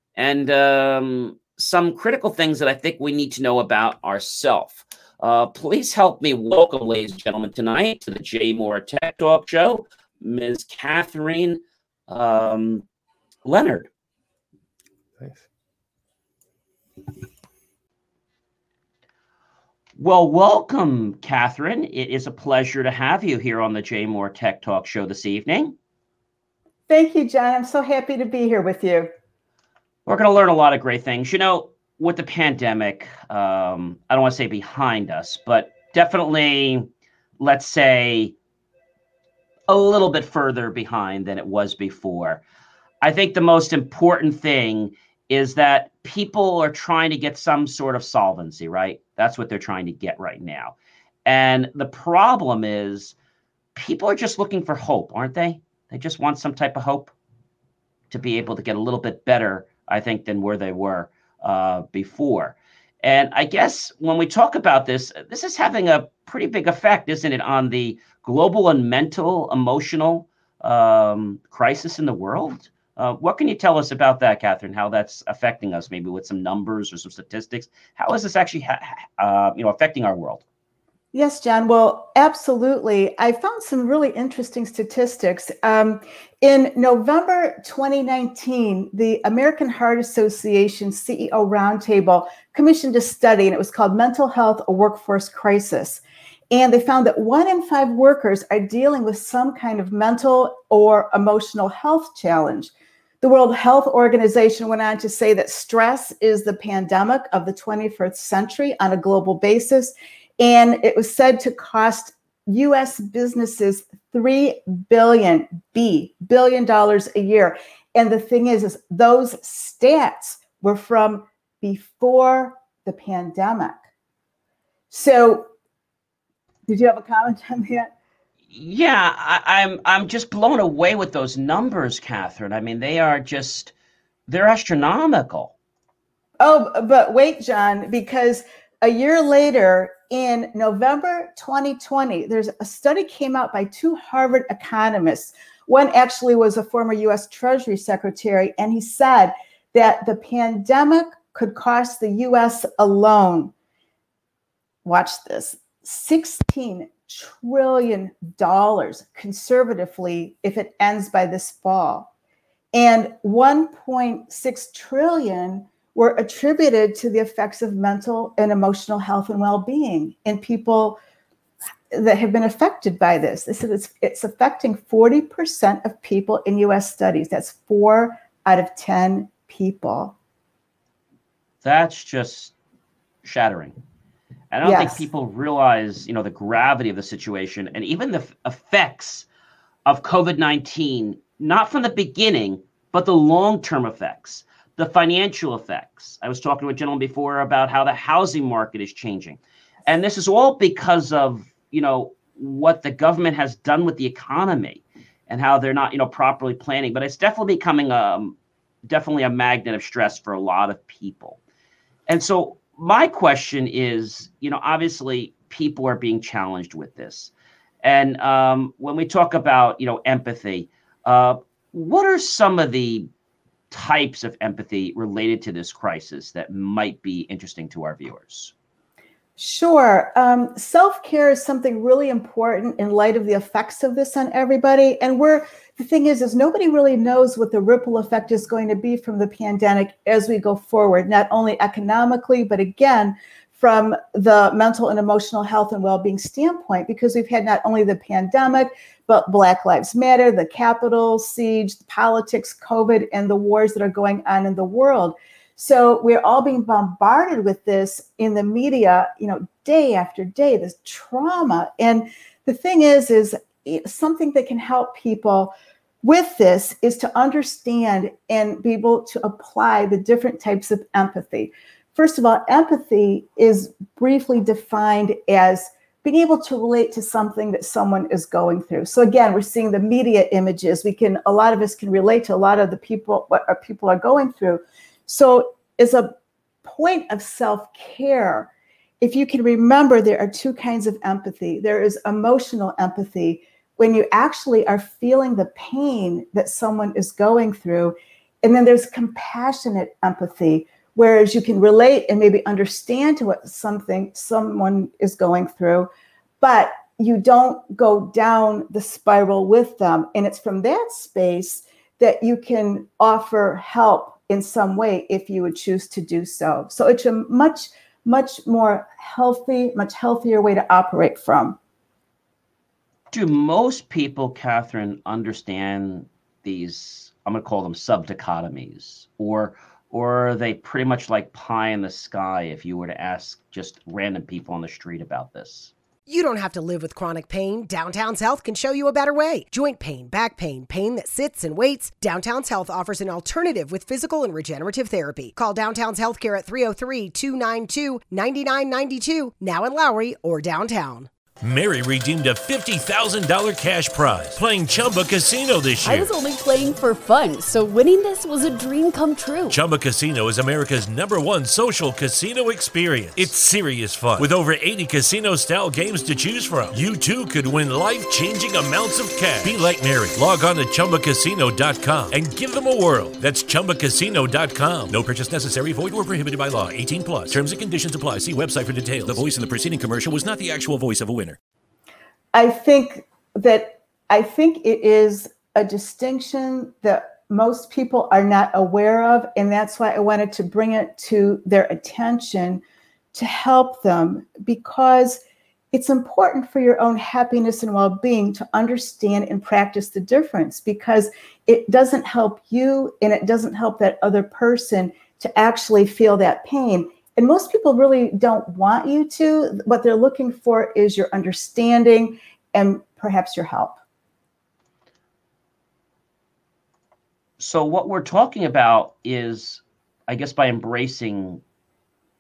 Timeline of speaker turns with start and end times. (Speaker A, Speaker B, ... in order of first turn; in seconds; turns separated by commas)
Speaker A: 0.1-12.8, Speaker A: 13.5-13.9, Speaker A: 20.0-25.8, Speaker B: 26.9-29.1, Speaker A: 30.1-36.9, Speaker A: 37.4-38.4, Speaker A: 39.7-42.4, Speaker A: 43.0-50.8, Speaker A: 51.2-53.1, Speaker A: 53.8-57.1, Speaker A: 58.1-80.4, Speaker B: 81.1-102.7, Speaker B: 103.2-123.8, Speaker B: 124.9-125.5, Speaker B: 126.7-127.9, Speaker A: 128.5-133.7, Speaker A: 134.3-135.5, Speaker B: 136.4-153.5, Speaker B: 154.8-162.1, Speaker B: 162.7-171.0, Speaker B: 171.9-180.1, Speaker A: 181.6-182.5, Speaker A: 183.2-183.8, Speaker A: 184.5-189.2, Speaker B: 184.6-185.0, Speaker A: 189.9-208.3, Speaker A: 208.9-211.4, Speaker A: 212.1-217.3, Speaker A: 217.8-223.1, Speaker A: 223.7-228.5, Speaker B: 229.4-288.5, Speaker B: 289.0-305.9, Speaker B: 306.4-321.6, Speaker A: 323.1-335.7, Speaker C: 336.1-351.1, Speaker D: 351.4-356.1, Speaker E: 355.8-359.6, Speaker D: 359.5-381.4, Speaker B: 382.3-392.6, Speaker B: 393.1-395.2, Speaker B: 395.7-413.8, Speaker A: 417.4-421.4